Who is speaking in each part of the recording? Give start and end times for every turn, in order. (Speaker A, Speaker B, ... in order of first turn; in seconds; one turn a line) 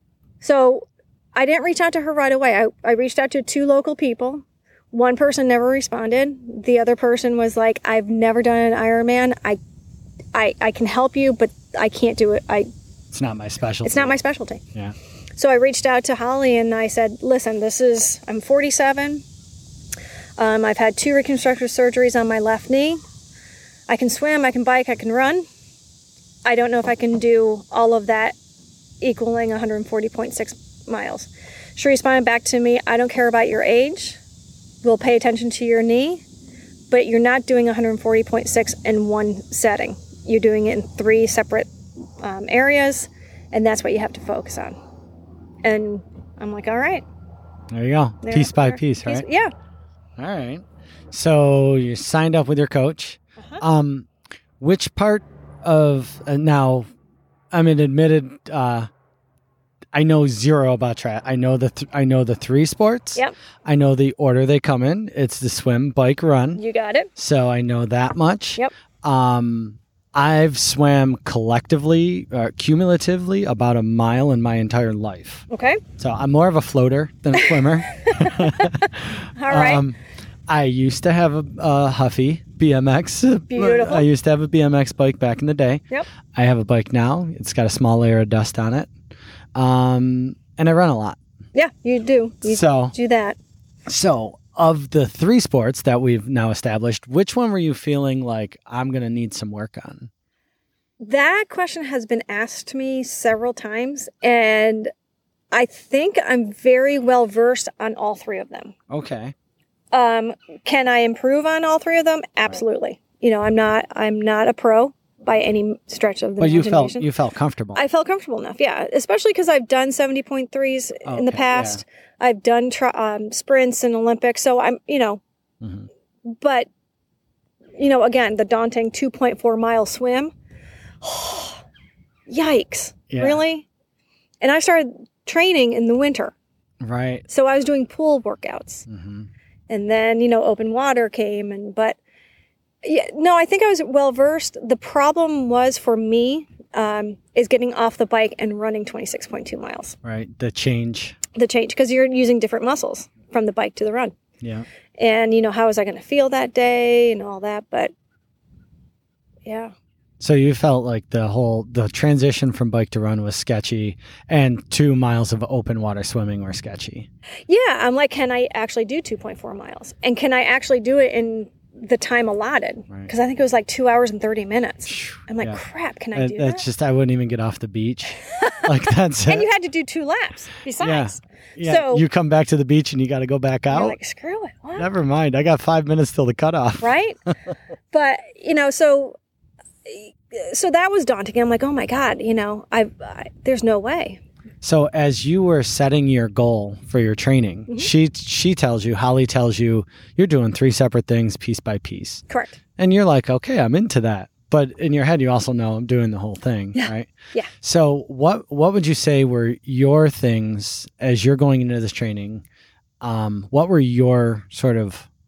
Speaker A: 0.4-9.6
Speaker A: 10.3-12.7
Speaker B: 13.1-14.2
Speaker A: 13.8-14.6
Speaker A: 15.4-19.2
Speaker A: 20.4-23.0
Speaker A: 23.9-25.4
Speaker A: 26.4-28.4
Speaker A: 29.0-34.2
Speaker A: 34.8-36.2
Speaker A: 36.9-41.7
Speaker A: 42.2-44.8
Speaker A: 45.6-47.0
Speaker B: 47.7-49.3
Speaker A: 48.2-49.5
Speaker B: 50.2-54.1
Speaker B: 54.6-56.9
Speaker B: 57.5-58.9
Speaker B: 59.9-66.6
Speaker A: 66.6-67.1
Speaker B: 67.2-75.5
Speaker A: 75.5-75.8
Speaker B: 76.0-80.0
Speaker A: 77.9-79.8
Speaker B: 80.5-85.8
Speaker A: 83.5-84.0
Speaker B: 86.3-88.9
Speaker B: 89.5-91.2
Speaker A: 91.5-93.4
Speaker B: 92.5-93.0
Speaker B: 93.9-100.1
Speaker A: 101.0-104.9
Speaker A: 105.5-108.7
Speaker B: 108.9-109.3
Speaker A: 109.9-117.1
Speaker B: 116.4-117.8
Speaker A: 117.8-125.2
Speaker B: 121.1-121.8
Speaker B: 125.6-125.9
Speaker A: 126.3-126.7
Speaker A: 127.8-130.3
Speaker A: 131.0-131.6
Speaker A: 132.3-133.7
Speaker B: 133.1-133.4
Speaker A: 134.4-136.3
Speaker B: 136.8-137.3
Speaker A: 137.3-138.9
Speaker B: 138.9-139.3
Speaker A: 139.7-142.0
Speaker A: 142.8-150.0
Speaker B: 150.0-151.2
Speaker A: 151.3-154.2
Speaker B: 154.4-154.7
Speaker A: 155.0-157.9
Speaker A: 159.5-159.7
Speaker B: 160.2-167.1
Speaker A: 167.5-176.6
Speaker B: 174.9-175.6
Speaker B: 176.2-179.5
Speaker A: 178.3-178.7
Speaker A: 179.3-182.0
Speaker B: 180.8-184.0
Speaker A: 183.7-184.9
Speaker B: 184.8-186.9
Speaker A: 186.8-187.2
Speaker A: 187.9-189.2
Speaker A: 189.9-194.2
Speaker B: 194.6-202.2
Speaker A: 202.3-202.6
Speaker B: 202.8-212.4
Speaker A: 206.8-207.5
Speaker B: 213.0-215.1